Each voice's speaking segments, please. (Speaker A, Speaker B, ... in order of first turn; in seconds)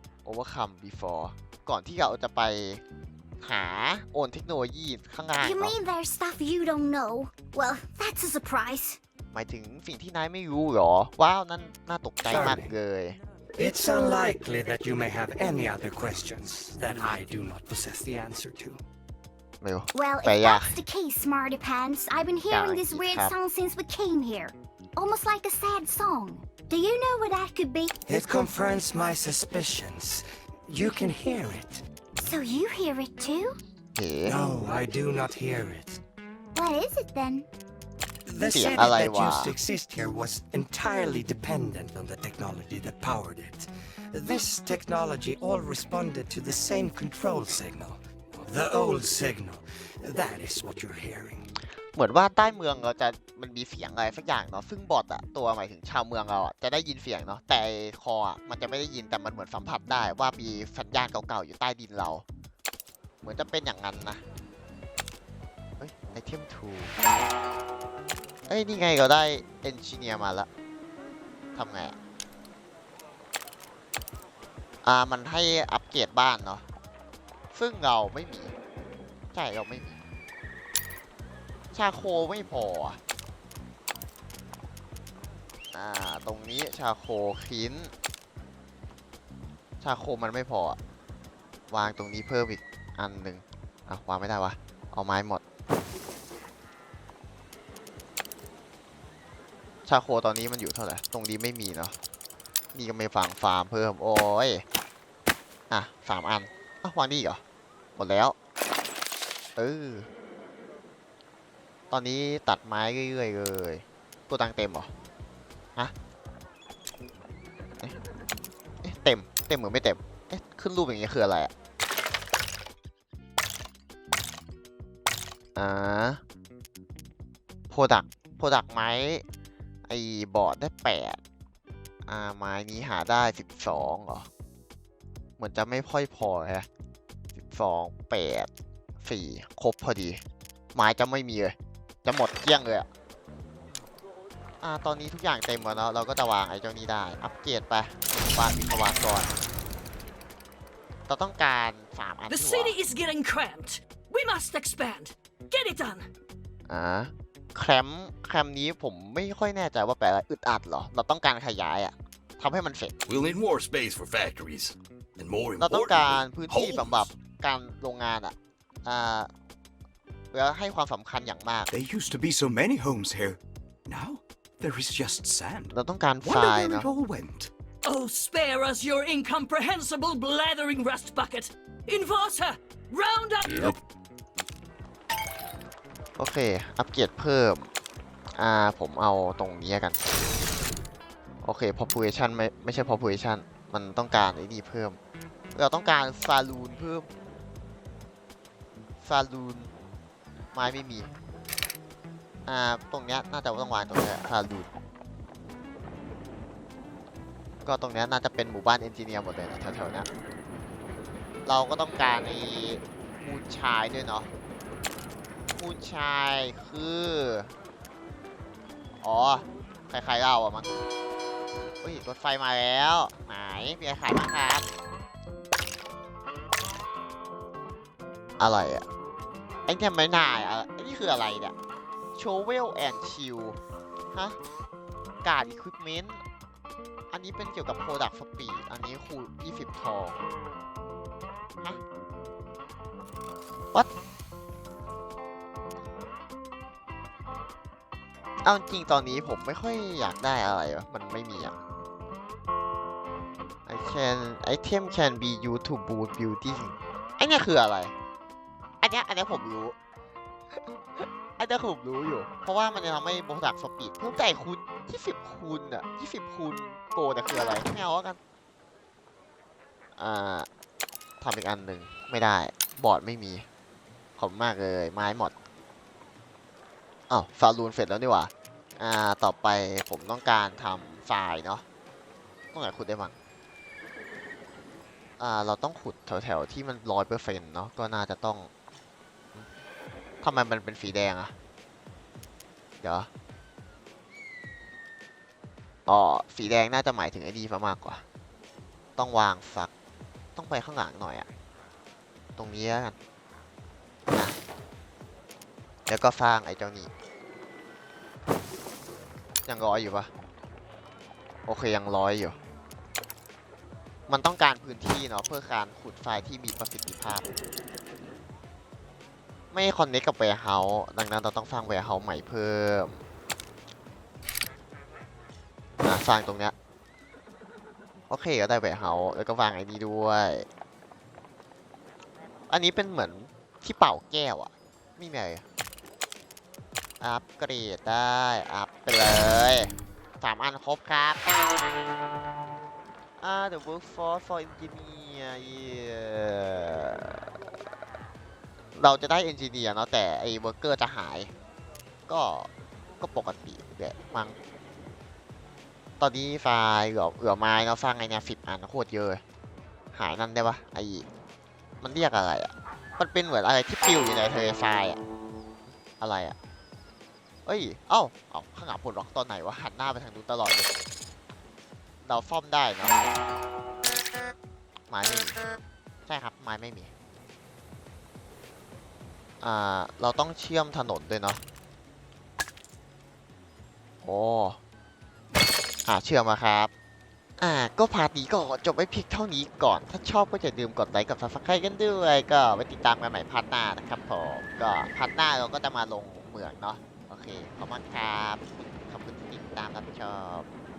Speaker A: 0.2-2.8, 3.4-5.8, 9.3-13.2, 19.6-20.8, 22.5-23.4, 33.9-34.4, 38.5-39.6, 51.9-62.2, 63.2-64.2, 65.8-66.9, 68.5-70.5, 71.5-72.0, 74.8-76.6, 77.5-78.5, 79.3-80.0, 81.7-83.0, 85.7-87.9, 89.8-90.8, 91.7-95.4, 99.9-102.0, 102.7-104.6, 105.7-107.4, 108.0-108.3, 109.6-110.1, 111.9-114.9, 118.8-121.5, 125.6-126.2, 127.7-129.2, 129.9-131.2, 132.1-134.3, 135.4-136.7, 137.4-138.5, 139.0-140.2, 140.7-142.9, 144.6-149.3, 151.1-152.8, 156.7-162.9, 165.6-169.3, 170.3-171.7, 175.7-176.9, 186.2-187.7, 188.4-190.0, 191.4-195.0, 195.5-197.1, 199.0-199.7, 200.5-201.1, 202.4-204.7, 207.6-210.1, 211.4-214.3, 215.6-217.5, 219.0-220.7, 221.8-224.7, 228.4-228.8, 229.7-231.6, 232.1-233.6, 234.1-234.4, 235.2-236.2, 237.1-240.2, 248.4-251.6, 253.7-257.9, 258.8-259.8, 261.0-268.2, 270.0-270.5, 271.2-273.4, 274.2-275.3, 277.1-281.6, 282.5-283.1, 285.2-288.5, 290.2-291.4, 292.8-293.1, 295.9-298.0, 299.0-299.7, 300.4-301.3, 302.4-302.9, 305.9-306.9, 309.4-310.1, 311.4-312.4, 314.1-317.3, 319.5-323.0, 325.8-326.6, 328.1-330.4, 332.5-335.4, 337.0-341.2, 343.2-347.3, 348.8-351.3, 352.1-354.4, 356.0-359.2, 359.9-361.1, 361.8-365.0, 366.0-366.4, 367.4-370.7, 372.0-373.0, 374.9-375.4, 376.1-376.9, 379.4-381.4, 384.0-384.6, 385.9-386.7, 387.4-400.5
Speaker B: 5.4-9.0, 19.9-28.0, 32.2-33.6, 36.5-37.5
Speaker C: 12.2-12.7, 13.6-18.8, 28.1-31.8, 34.2-36.0, 38.3-51.5
Speaker D: 152.3-156.1, 177.8-183.8
Speaker E: 163.1-167.1, 171.9-173.4, 174.0-175.4, 176.4-177.4, 183.4-183.8
Speaker F: 171.7-175.7, 176.3-177.5